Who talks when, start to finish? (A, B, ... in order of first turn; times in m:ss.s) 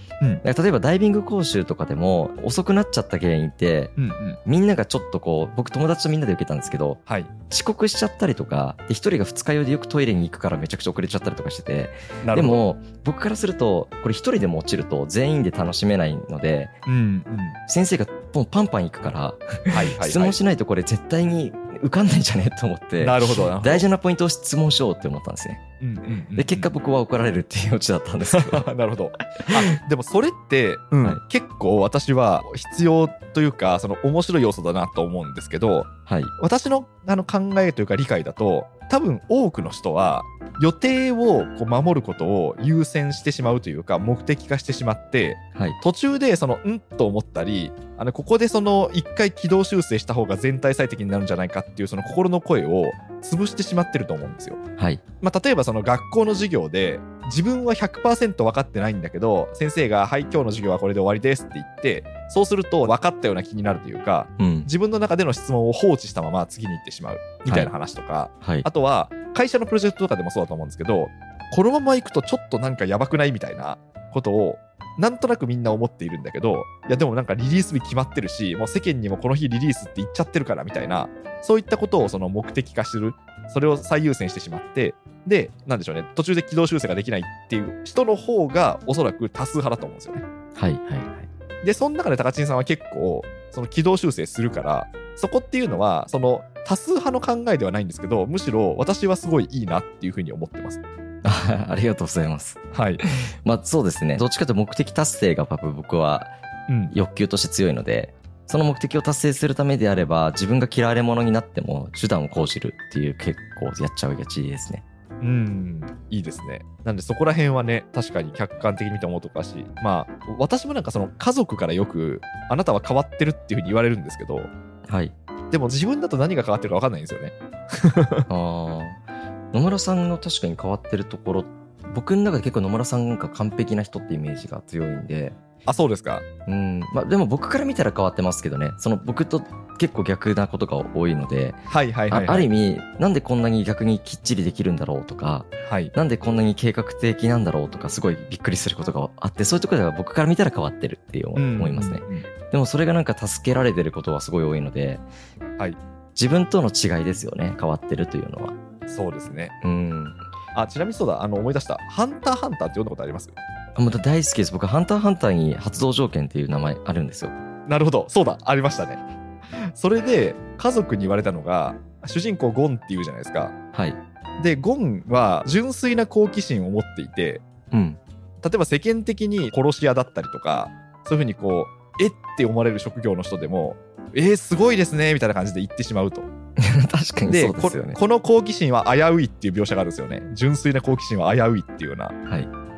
0:00.4-0:16.7 A
0:04.0-0:04.4 B
0:07.1-0:07.3 B
0:12.2-0:12.6 B
0:16.9-0:17.6 B
0:17.7-0:25.6 A
0:19.7-0:20.4 B
0:23.0-0:23.9 B
0:25.8-0:26.7 B
0:26.4-0:28.7 A
0:28.3-0:54.6 B
0:36.1-0:36.3 A
0:55.2-1:30.2 B
1:04.4-1:04.7 A
1:07.5-1:07.7 A
1:08.4-1:08.7 A
1:30.6-1:31.3 A
1:31.6-1:40.8 B
1:41.2-1:46.4 A
1:42.7-1:43.0 B
1:46.7-1:46.9 B
1:46.9-1:54.8 A
1:55.2-2:04.5 B
2:04.9-2:05.1 A
2:05.5-2:08.3 B
2:08.3-2:09.0 A
2:09.5-2:15.4 A
2:15.6-2:16.2 B
2:16.5-2:35.0 A
2:21.7-2:22.5 B
2:25.6-2:25.9 B
2:31.4-2:32.3 B
2:36.2-2:38.6 A
2:38.9-2:39.5 B
2:39.6-2:40.2 A
2:40.5-2:43.4 B
2:43.8-2:47.3 A
2:47.7-2:49.0 B
2:49.6-2:53.5 B
2:53.7-2:54.0 A
2:54.4-2:57.4 B
2:57.7-2:58.0 A
2:58.4-3:06.3 B
3:06.6-3:08.0 A
3:07.3-3:12.2 B
3:12.3-3:12.5 A